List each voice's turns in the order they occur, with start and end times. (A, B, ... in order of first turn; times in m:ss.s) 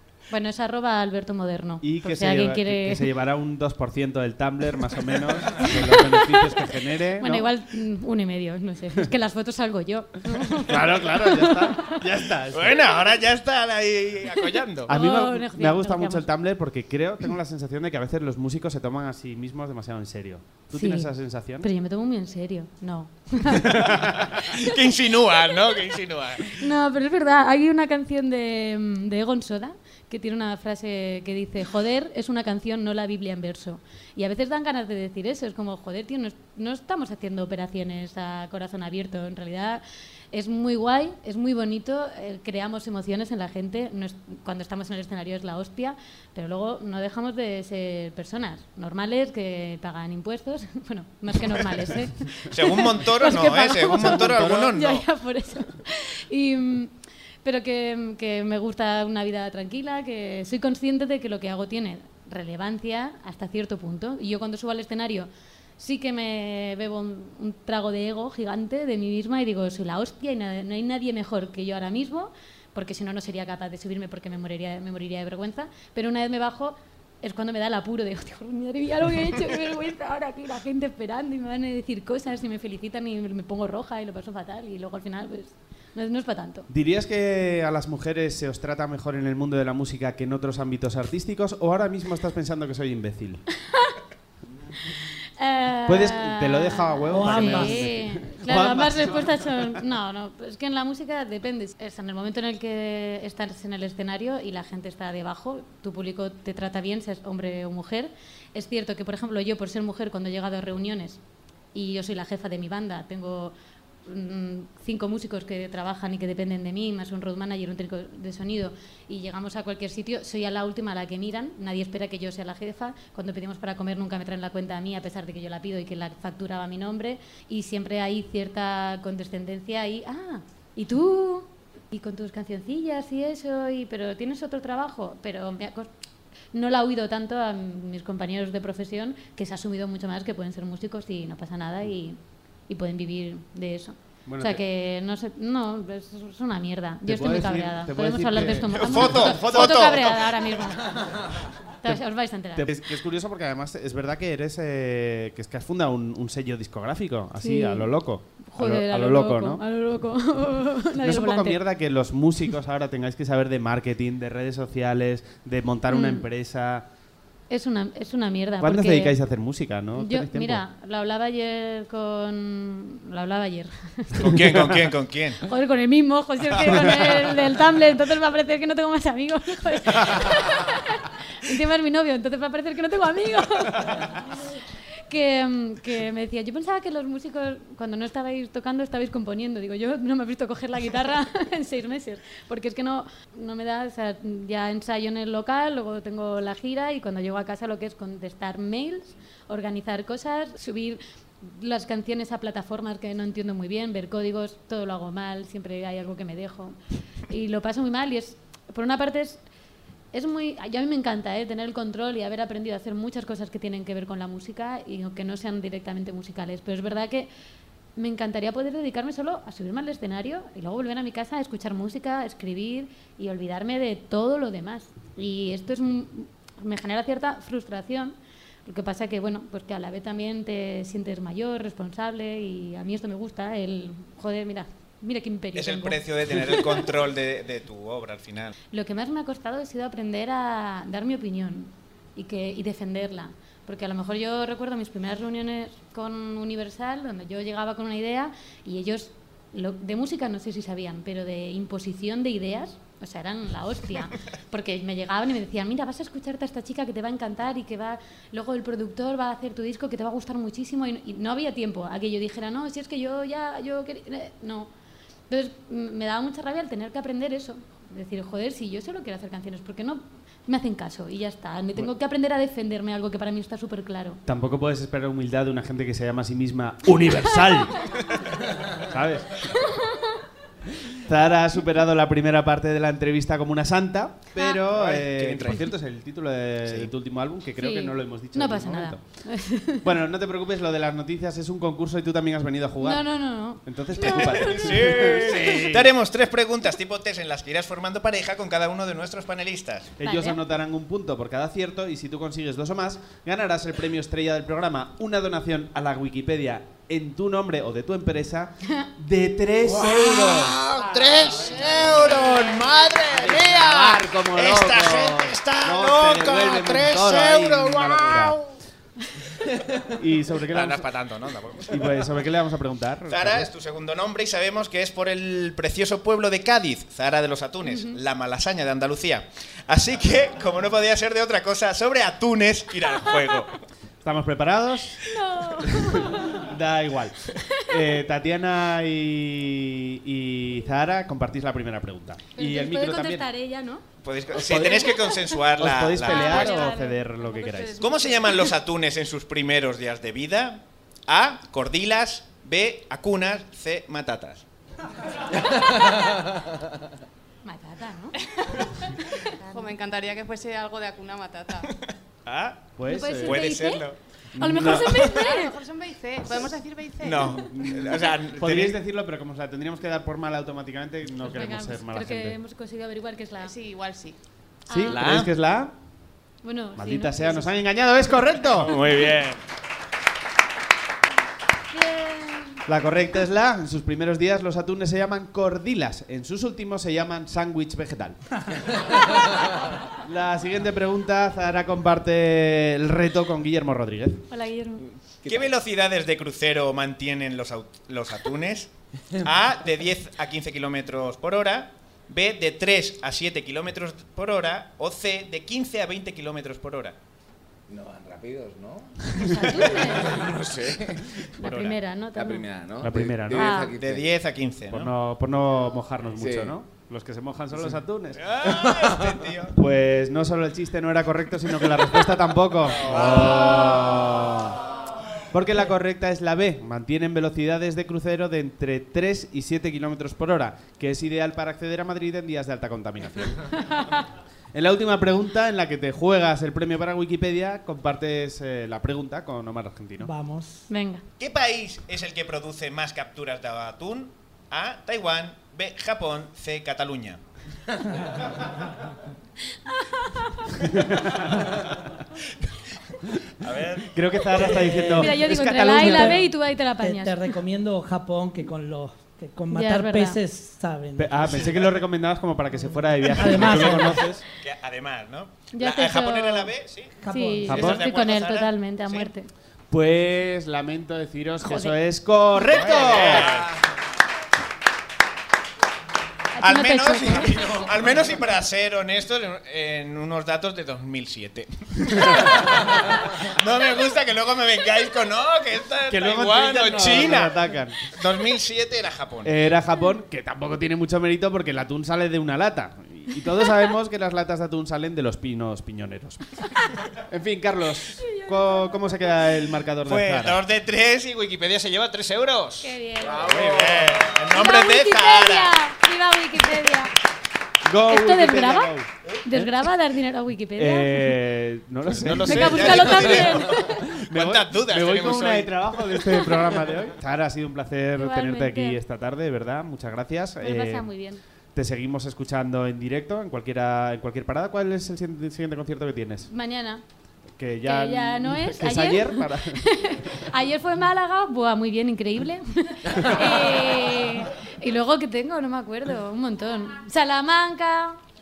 0:00.3-0:03.1 A
0:01.8-0:07.5 B
0:05.6-0:06.5 A
0:07.2-0:12.0 A
0:10.7-0:12.8 B
0:12.5-0:14.9 C
0:14.9-0:16.3 A
0:14.9-0:21.7 B
0:20.8-0:24.6 A
0:23.7-0:26.6 C
0:23.7-0:24.2 B
0:26.5-1:26.7 A
0:52.5-0:55.1 C
0:53.9-0:54.7 B
1:26.7-1:33.4 B
1:33.7-1:34.0 A
1:35.4-1:51.2 A
1:35.9-1:39.7 B
1:37.2-1:37.8 D
1:51.7-1:53.5 A
1:54.0-2:15.9 A
2:16.5-2:32.7 A
2:24.3-2:24.6 B
2:27.0-2:29.5 B
2:28.7-2:30.7 C
2:31.8-2:39.6 B
2:37.4-2:37.9 A
2:38.5-2:41.6 A
2:41.0-2:46.8 B
2:45.9-2:46.2 A
2:47.5-2:49.2 A
2:48.6-2:50.6 B
2:50.0-2:54.6 A
2:54.1-2:55.4 C
2:55.4-3:26.8 A
3:27.3-3:29.4 A
3:30.1-3:37.3 A
3:38.0-3:56.9 A
3:55.6-3:58.5 C
3:58.7-4:24.7 A
4:25.3-4:34.2 A
4:34.3-4:37.8 B
4:38.8-4:39.4 B
4:39.6-4:40.1 A
4:40.9-4:49.0 B
4:44.7-4:45.7 C
4:46.6-4:46.9 C
4:47.6-4:49.9 A
4:49.7-4:55.9 B
4:52.8-4:55.6 A
4:54.0-4:59.9 C
5:00.0-5:10.6 B
5:00.0-5:00.4 A
5:09.7-5:18.5 C
5:12.9-5:18.4 B
5:19.9-5:20.9 B
5:20.5-5:22.1 C
5:21.7-5:23.5 B
5:23.1-5:33.5 C
5:27.6-5:28.0 A
5:34.0-5:35.0 B
5:35.1-5:36.5 A
5:35.6-5:43.3 B
5:37.4-5:37.8 A
5:42.4-5:43.8 A
5:44.0-5:46.6 C
5:44.3-5:44.9 B
5:44.8-5:45.2 A
5:45.6-5:47.9 B
5:46.0-5:47.0 A
5:47.4-5:48.3 E
5:47.8-5:54.4 C
5:57.4-5:59.8 A
5:59.5-6:01.7 E
6:01.9-6:04.0 C
6:02.8-6:03.4 B
6:02.9-6:05.6 A
6:04.3-6:05.1 B
6:04.6-6:05.2 C
6:05.2-6:07.4 E
6:07.0-6:08.8 C
6:07.6-6:12.4 B
6:11.2-6:13.6 A
6:13.4-6:14.2 E
6:14.7-6:15.0 A
6:14.7-6:15.7 B
6:14.8-6:15.3 C
6:16.4-6:17.5 A
6:16.8-6:18.8 B
6:18.5-6:19.4 C
6:21.7-6:22.6 A
6:22.7-6:28.2 B
6:30.0-6:34.2 B
6:34.3-6:34.8 A
6:35.2-6:35.5 F
6:35.2-6:47.0 C
6:47.7-6:51.2 F
6:49.2-6:50.3 A
6:51.4-6:52.5 A
6:51.4-6:51.7 C
6:52.2-6:54.1 F
6:52.8-6:53.6 B
6:53.3-6:53.8 A
6:53.7-6:54.9 C
6:54.7-6:58.2 B
6:56.2-6:56.6 F
6:58.2-6:59.6 C
6:59.6-7:04.6 B
7:02.9-7:03.8 C
7:05.3-7:14.0 B
7:13.7-7:14.0 A
7:14.5-7:20.1 B
7:20.0-7:20.7 D
7:20.7-7:21.0 A
7:21.2-7:27.2 C
7:29.6-7:30.8 A
7:30.6-7:31.5 B
7:33.4-7:35.0 C
7:33.9-7:36.2 B
7:34.9-7:37.4 A
7:35.9-7:36.2 D
7:36.8-7:41.5 D
7:39.5-7:40.2 A
7:41.0-7:44.2 B
7:42.6-7:44.1 D
7:44.4-7:47.0 C
7:45.5-7:46.5 A
7:47.0-7:47.4 D
7:47.1-7:49.3 A
7:47.5-7:47.8 B
7:47.5-7:49.1 C
7:49.7-7:53.5 B
7:51.4-7:51.8 A
7:52.4-7:53.6 C
7:56.4-7:57.7 A
7:56.4-8:09.4 C
8:05.9-8:07.8 B
8:09.2-8:16.4 B
8:16.9-8:20.4 B
8:17.8-8:19.3 A
8:19.8-8:25.6 C
8:22.6-8:26.9 A
8:23.3-8:23.8 F
8:27.6-8:28.9 B
8:27.9-8:31.2 A
8:30.6-8:40.9 B
8:31.9-8:36.1 C
8:32.2-8:33.9 A
8:36.0-8:36.5 A
8:38.0-8:38.8 A
8:40.4-8:41.2 A
8:41.6-8:46.3 B
8:46.3-8:46.8 A
8:47.4-8:49.6 B
8:47.6-8:58.0 A